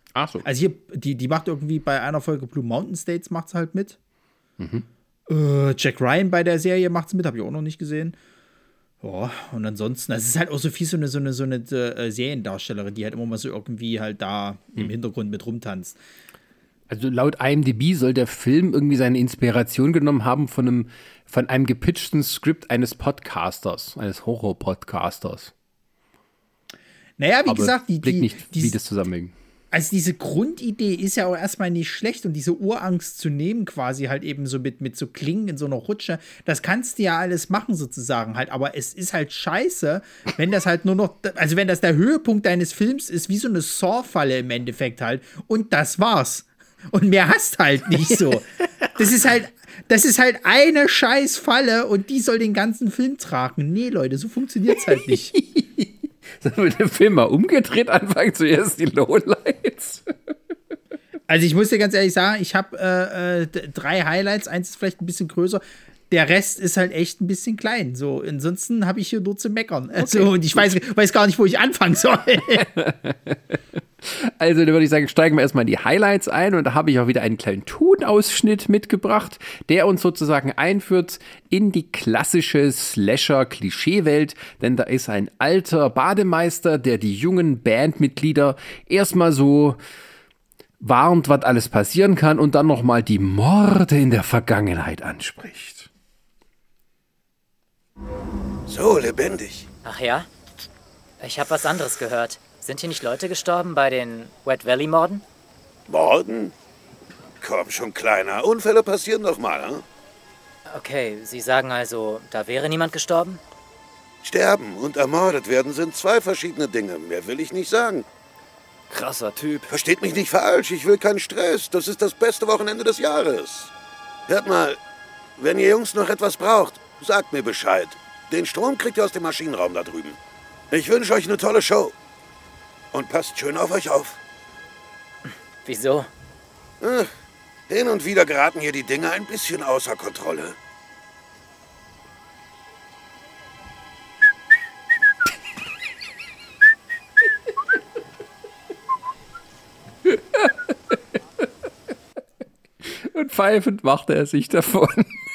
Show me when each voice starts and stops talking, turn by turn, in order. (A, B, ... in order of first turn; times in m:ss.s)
0:00.1-0:00.4 A
0:00.4-0:04.0 B
0:04.6-0:04.8 A
0:05.3-0:08.1 B
0:09.0-0:16.0 B
0:16.9-0:25.5 A
0:27.2-0:28.8 B
0:27.5-0:29.3 A
0:29.7-0:55.3 B
0:48.0-0:48.4 A
0:54.8-1:00.1 A
1:01.3-1:12.7 B
1:10.0-1:10.7 A
1:12.6-1:29.8 A
1:30.8-1:35.9 A
1:38.7-1:39.7 C
1:39.8-1:40.3 D
1:41.2-1:45.2 D
1:45.9-1:46.5 C
1:47.4-1:49.8 C
1:50.7-1:53.4 D
1:54.2-1:58.1 C
1:58.9-1:59.5 D
1:59.6-2:03.7 C
2:04.3-2:04.8 C
2:05.4-2:10.2 C
2:10.7-2:11.9 C
2:12.9-2:14.2 C
2:15.6-2:16.1 D
2:16.8-2:17.1 C
2:17.7-2:20.6 C
2:30.0-2:30.9 A
2:32.8-2:35.2 A